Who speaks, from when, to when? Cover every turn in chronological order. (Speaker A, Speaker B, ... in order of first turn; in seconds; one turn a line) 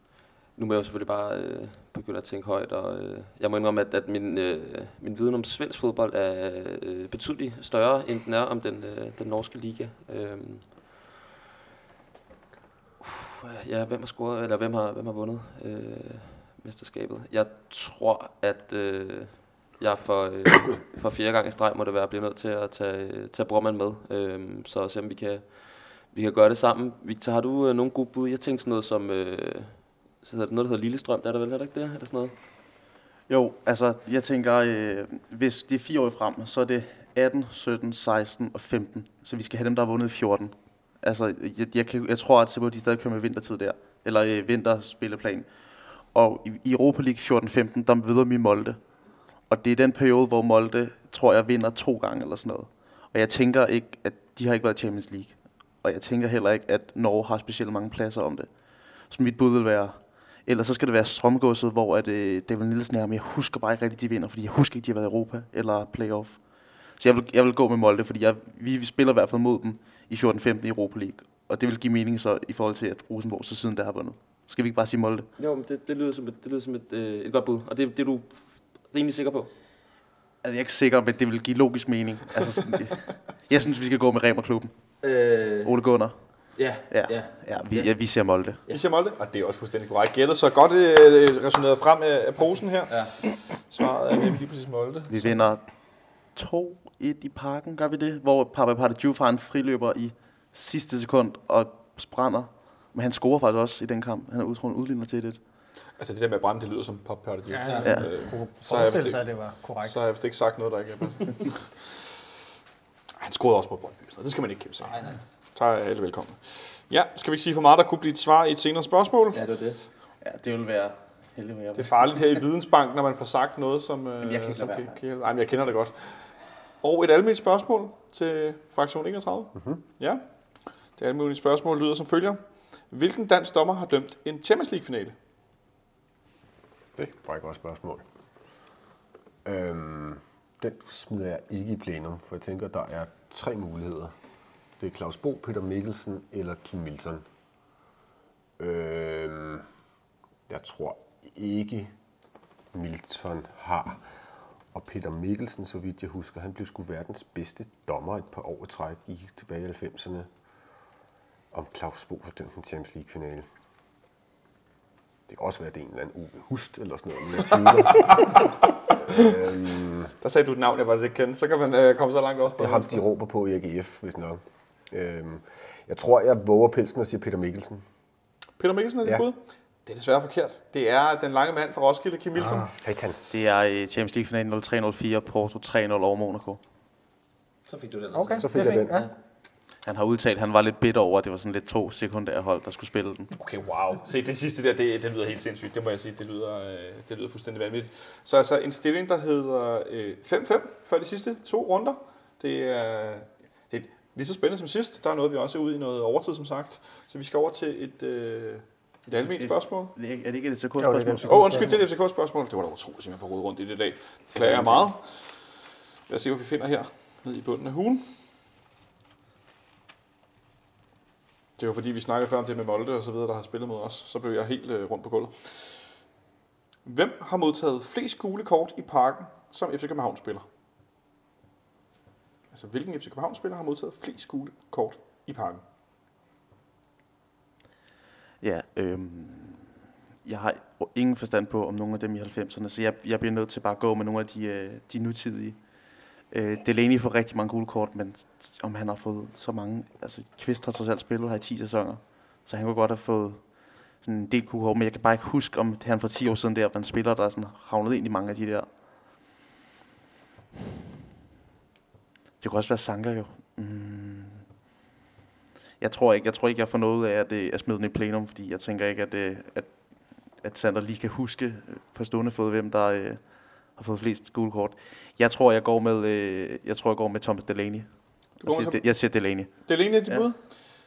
Speaker A: 0.6-11.0
Speaker A: 13.0-32.3
Speaker B: 33.3-75.2
Speaker A: 75.4-79.5
Speaker B: 80.4-84.8
Speaker A: 85.0-85.7
Speaker B: 85.6-88.6
Speaker A: 86.5-87.9
Speaker C: 88.7-95.3
Speaker A: 92.9-93.2
Speaker B: 95.1-105.4
Speaker C: 106.0-109.3
Speaker D: 107.5-110.0
Speaker B: 107.8-108.1
Speaker C: 109.8-112.1
Speaker C: 113.2-119.4
Speaker A: 114.9-115.2
Speaker A: 119.3-119.8
Speaker B: 120.2-122.1
Speaker C: 121.7-126.3
Speaker A: 124.2-124.9
Speaker C: 126.8-130.2
Speaker E: 129.5-129.8
Speaker C: 131.0-135.1
Speaker E: 136.9-138.0
Speaker E: 139.4-144.1
Speaker E: 144.8-147.2
Speaker E: 148.6-149.7
Speaker E: 150.5-151.9
Speaker E: 152.7-154.1
Speaker E: 154.7-160.3
Speaker E: 161.5-163.5
Speaker E: 165.3-170.1
Speaker C: 167.9-168.6
Speaker C: 170.2-173.0
Speaker E: 172.6-177.8
Speaker C: 178.6-182.7
Speaker E: 179.0-179.3
Speaker E: 182.4-183.2
Speaker B: 183.3-186.6
Speaker A: 187.7-189.1
Speaker D: 188.1-189.1
Speaker E: 188.4-189.0
Speaker B: 189.8-193.3
Speaker C: 193.3-209.9
Speaker B: 209.1-211.8
Speaker D: 210.8-211.8
Speaker C: 211.3-215.2
Speaker B: 214.4-214.8
Speaker C: 216.1-218.1
Speaker C: 221.6-225.9
Speaker C: 226.8-230.4
Speaker C: 232.5-235.6
Speaker B: 238.4-258.8
Speaker B: 262.4-264.4
Speaker B: 265.8-280.2
Speaker C: 278.4-280.4